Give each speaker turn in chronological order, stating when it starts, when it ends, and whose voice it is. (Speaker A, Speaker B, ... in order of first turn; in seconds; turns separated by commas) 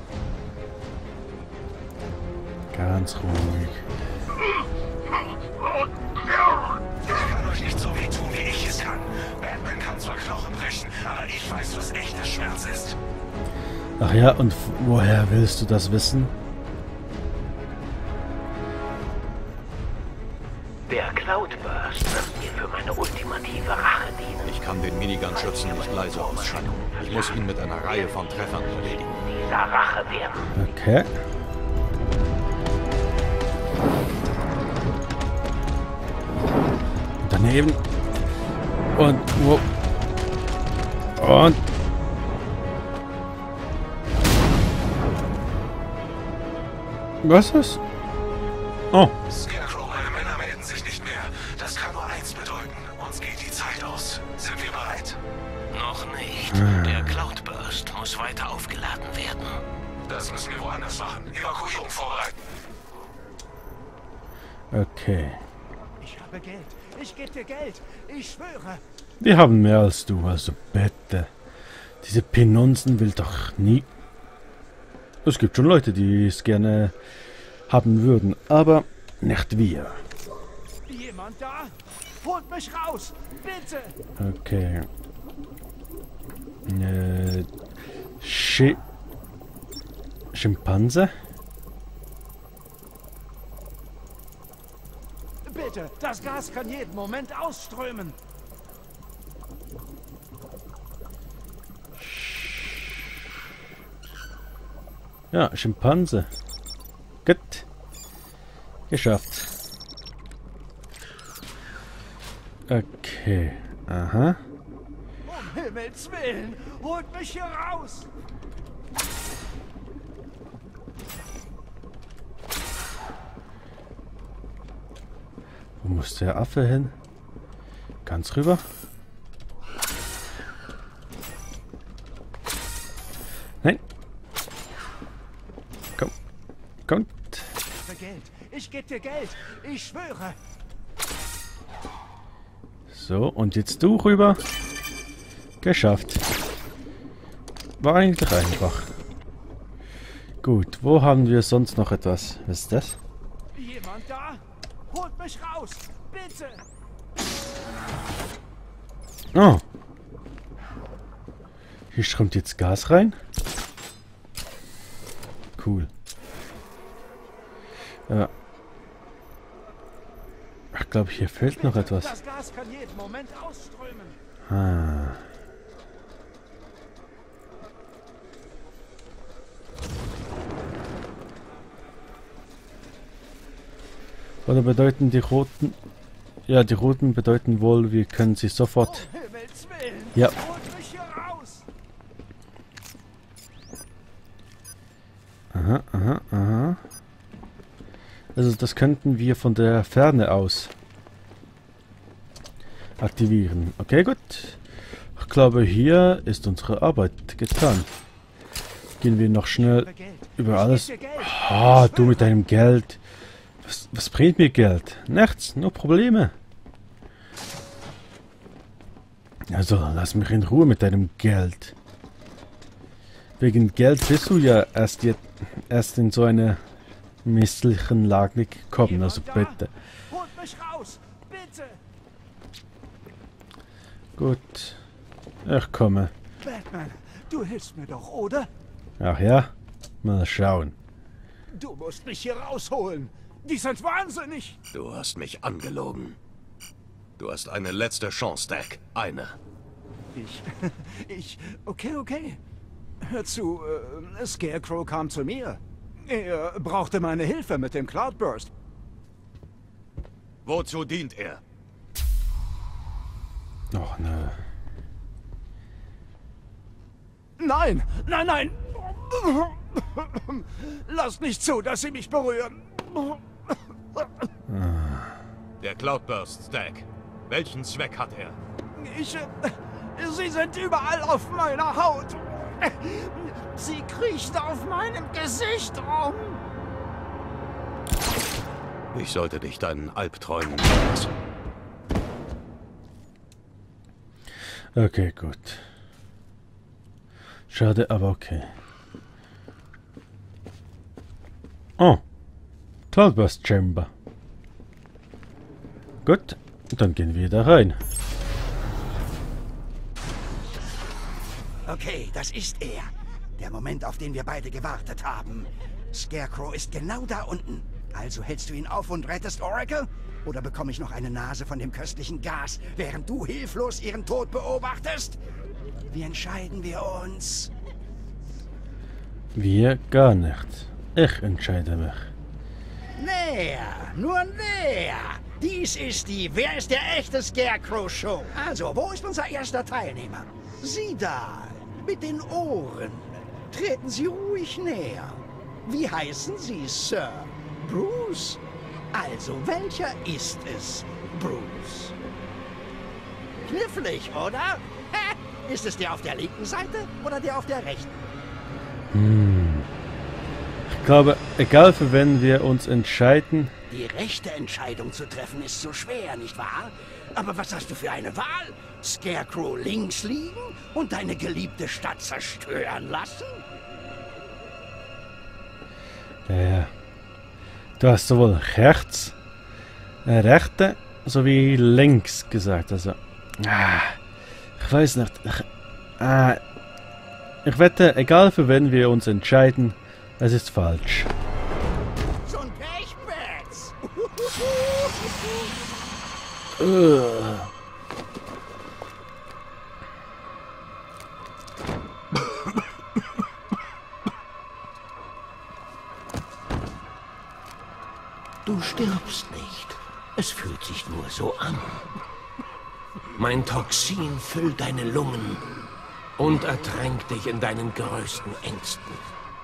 Speaker A: 2.7-3.8, Speaker B: 7.0-12.9, Speaker A: 14.0-16.3, Speaker C: 20.9-24.6, Speaker D: 24.4-29.1, Speaker C: 25.2-30.6, Speaker A: 30.5-31.1, Speaker A: 37.2-37.8, Speaker A: 38.9-39.6, Speaker A: 41.2-41.6, Speaker A: 47.2-47.8, Speaker B: 49.3-55.2, Speaker C: 55.7-59.6, Speaker A: 56.5-57.2, Speaker B: 60.0-62.4, Speaker A: 64.7-65.4, Speaker E: 66.0-68.8, Speaker A: 69.2-71.3, Speaker A: 72.0-73.9, Speaker A: 75.2-76.9, Speaker A: 77.7-80.0, Speaker E: 80.8-83.9, Speaker A: 84.2-84.9, Speaker A: 86.7-87.5, Speaker A: 88.2-88.8, Speaker A: 90.3-91.1, Speaker E: 95.4-98.2, Speaker A: 105.3-106.3, Speaker A: 107.2-107.7, Speaker A: 108.9-109.5, Speaker A: 112.7-114.4, Speaker E: 115.2-118.1, Speaker A: 125.8-126.9, Speaker A: 128.0-128.6, Speaker A: 136.9-137.5, Speaker E: 137.8-140.4, Speaker A: 142.9-144.4, Speaker A: 145.6-146.2, Speaker A: 147.8-148.9, Speaker A: 150.4-153.0, Speaker E: 153.5-156.6, Speaker A: 159.3-159.6, Speaker A: 161.9-163.2, Speaker A: 165.6-165.9, Speaker A: 170.7-172.1, Speaker E: 171.4-174.2, Speaker A: 174.5-175.2, Speaker A: 184.4-185.8, Speaker A: 186.5-189.1, Speaker E: 188.8-191.6, Speaker A: 195.5-196.8, Speaker A: 198.3-200.7, Speaker A: 203.0-204.6, Speaker A: 205.2-207.9, Speaker A: 209.0-213.0, Speaker E: 209.6-212.3, Speaker A: 213.6-216.3, Speaker A: 219.5-221.7, Speaker A: 223.4-226.6, Speaker A: 227.2-229.7, Speaker E: 228.8-229.6, Speaker E: 230.1-231.8, Speaker A: 234.2-234.8, Speaker A: 235.4-236.1, Speaker E: 236.4-238.5, Speaker A: 239.0-239.5, Speaker A: 240.0-240.7, Speaker E: 241.5-244.6, Speaker D: 244.7-246.2, Speaker D: 247.2-249.3, Speaker E: 250.1-252.4, Speaker E: 253.0-258.5, Speaker D: 260.4-261.4, Speaker A: 263.7-264.4, Speaker E: 267.4-274.3, Speaker A: 274.5-275.2, Speaker D: 275.6-278.4, Speaker E: 278.8-286.4, Speaker D: 288.9-291.1, Speaker A: 294.7-295.6, Speaker A: 297.5-298.5, Speaker A: 301.8-302.0, Speaker A: 302.9-303.9, Speaker A: 306.0-307.8, Speaker F: 311.6-325.2, Speaker F: 325.9-327.5, Speaker A: 329.3-332.1, Speaker F: 333.0-348.4, Speaker F: 348.9-351.9, Speaker F: 353.4-358.1, Speaker A: 358.9-359.7, Speaker A: 360.7-363.5, Speaker F: 363.7-373.4, Speaker A: 376.2-376.7, Speaker A: 377.8-379.1, Speaker A: 380.0-384.0, Speaker A: 384.6-385.5, Speaker A: 386.0-386.4, Speaker A: 387.4-391.1, Speaker F: 392.2-395.5, Speaker A: 396.6-397.5, Speaker C: 408.4-411.9, Speaker C: 413.1-415.5, Speaker C: 416.2-419.0